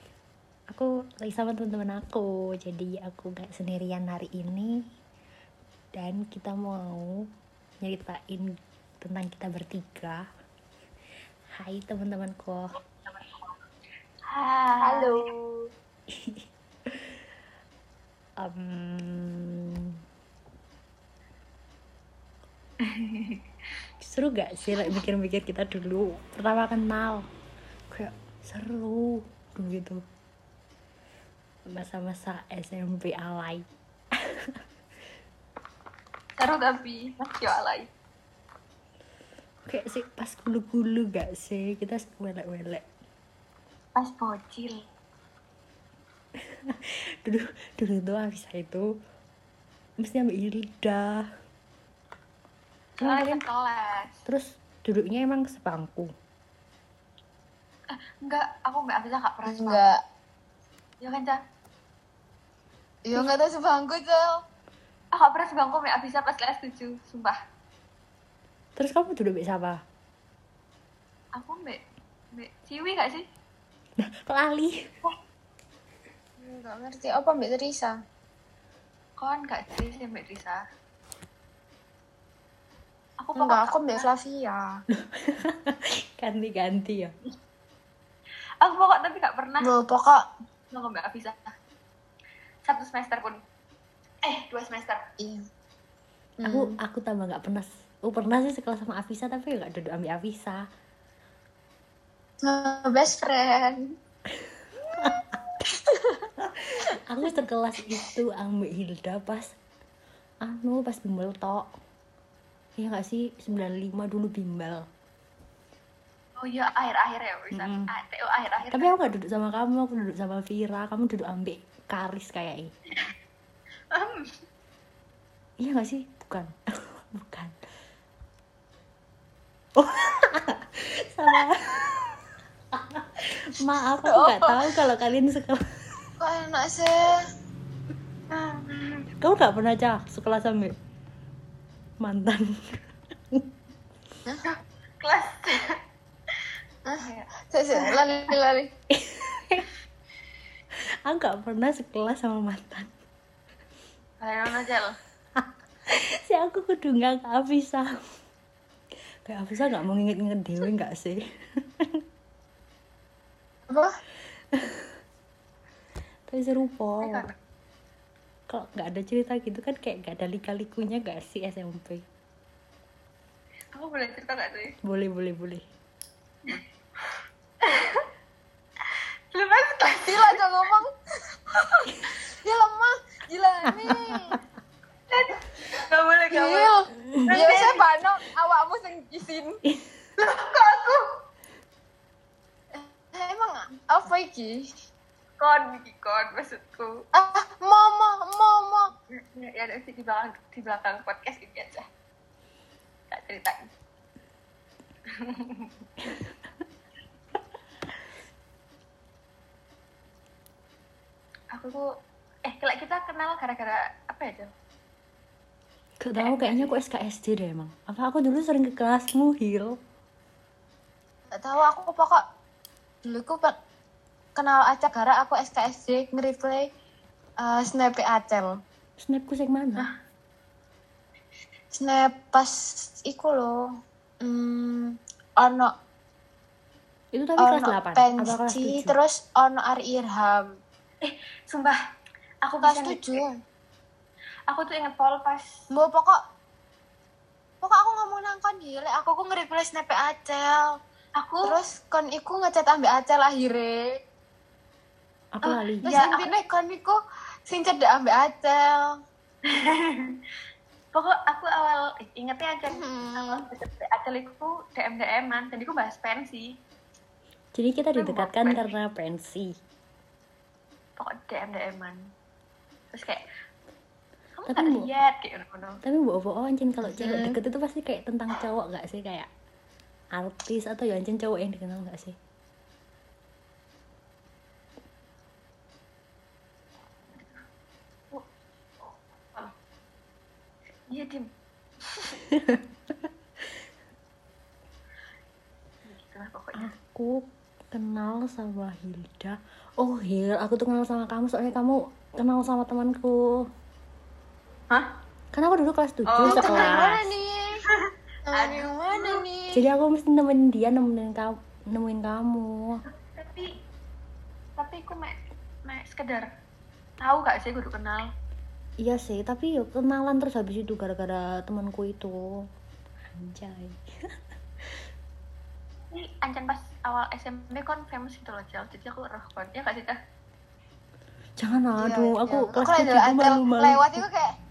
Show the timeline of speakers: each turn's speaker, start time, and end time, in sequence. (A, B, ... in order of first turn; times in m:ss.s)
0:00.7-0:04.8 A
0:06.0-0:07.1 A
0:07.8-0:10.2 A
0:11.6-0:12.7 A
0:14.3-0:15.2 B
0:14.8-0:15.5 C
0:16.1-0:17.2 A
0:18.4-0:19.9 A
0:22.8-0:23.4 B
0:24.0-0:27.3 A
0:27.9-0:30.0 A
0:31.7-0:33.6 A
0:34.2-0:34.6 A
0:36.4-0:37.9 B
0:39.7-0:42.8 A
0:44.0-0:44.8 B
0:46.7-0:48.9 A
0:50.0-0:51.3 A
0:53.0-0:53.4 A
0:53.0-0:54.1 B
0:54.2-0:56.1 A
0:57.9-0:59.8 B
0:59.4-1:00.0 C
1:01.0-1:01.4 B
1:03.0-1:04.4 C
1:05.1-1:07.4 B
1:08.8-1:09.8 A
1:11.4-1:11.8 B
1:12.3-1:13.2 B
1:14.0-1:14.9 A
1:16.4-1:18.0 C
1:19.2-1:20.6 B
1:23.2-1:24.1 B
1:23.4-1:24.8 C
1:24.9-1:27.1 A
1:28.6-1:29.7 B
1:29.6-1:30.3 C
1:30.7-1:31.5 B
1:32.7-1:33.4 B
1:34.2-1:35.0 B
1:35.2-1:35.4 C
1:36.4-1:36.7 C
1:36.4-1:40.6 A
1:42.4-1:43.9 C
1:44.9-1:45.4 A
1:46.4-1:49.5 A
1:50.4-1:51.7 A
1:52.8-1:54.8 A
1:56.4-1:58.9 B
1:57.5-1:57.9 A
1:58.7-2:02.7 A
2:03.9-2:04.4 B
2:05.6-2:07.6 A
2:09.8-2:11.8 A
2:12.7-2:15.6 A
2:14.0-2:14.6 C
2:16.2-2:17.2 C
2:18.3-2:19.0 B
2:19.2-2:20.8 A
2:22.0-2:23.4 A
2:24.4-2:25.8 B
2:26.8-2:28.7 C
2:27.0-2:28.0 B
2:28.9-2:29.7 A
2:31.1-2:32.9 A
2:34.2-2:35.0 B
2:35.4-2:37.9 A
2:39.2-2:41.2 A
2:43.7-2:43.9 C
2:44.5-2:44.9 A
2:46.3-2:47.2 A
2:47.0-2:47.3 B
2:48.5-2:52.0 A
2:53.7-2:54.7 B
2:54.8-2:55.7 A
2:57.6-2:58.1 B
2:58.8-3:00.4 B
3:00.0-3:04.4 C
3:03.8-3:04.3 A
3:05.1-3:06.7 B
3:06.3-3:09.6 C
3:07.2-3:07.8 B
3:10.2-3:11.0 B
3:12.7-3:14.7 C
3:15.4-3:17.0 B
3:17.1-3:18.9 C
3:19.1-3:21.8 B
3:23.1-3:23.7 B
3:25.1-3:25.7 B
3:26.0-3:26.3 A
3:31.5-3:31.9 B
3:32.4-3:34.5 B
3:36.0-3:39.8 A
3:36.2-3:36.8 B
3:41.3-3:42.2 C
3:43.0-3:43.5 C
3:44.4-3:46.7 C
3:47.4-3:48.5 C
3:49.0-3:49.9 A
3:51.7-3:53.6 C
3:54.2-3:55.7 C
3:57.1-3:59.0 A
3:57.4-4:00.6 C
4:01.0-4:01.8 B
4:02.4-4:03.2 B
4:02.6-4:03.4 C
4:04.5-4:05.5 B
4:05.7-4:06.2 C
4:07.6-4:10.7 C
4:11.2-4:11.5 B
4:11.4-4:14.0 C
4:15.3-4:16.0 A
4:15.5-4:16.3 B
4:15.8-4:19.0 C
4:19.4-4:20.2 B
4:20.9-4:26.5 B
4:22.7-4:23.5 C
4:27.6-4:29.5 A
4:28.0-4:28.7 B
4:31.0-4:32.1 B
4:32.9-4:33.2 B
4:34.4-4:35.8 B
4:34.5-4:34.9 A
4:35.8-4:39.3 A
4:36.9-4:37.4 C
4:40.1-4:42.2 A
4:50.9-4:51.3 B
4:51.9-4:52.2 B
4:52.3-4:52.6 A
4:55.9-4:56.7 B
4:56.6-5:03.4 A
5:05.3-5:07.1 A
5:06.1-5:06.8 B
5:06.3-5:07.6 C
5:07.7-5:09.2 B
5:08.3-5:09.6 C
5:09.5-5:12.8 A
5:13.2-5:13.5 B
5:14.6-5:16.3 B
5:17.0-5:18.1 B
5:18.8-5:22.5 A
5:23.1-5:23.9 A
5:25.9-5:30.0 B
5:31.4-5:34.0 A
5:31.8-5:34.4 C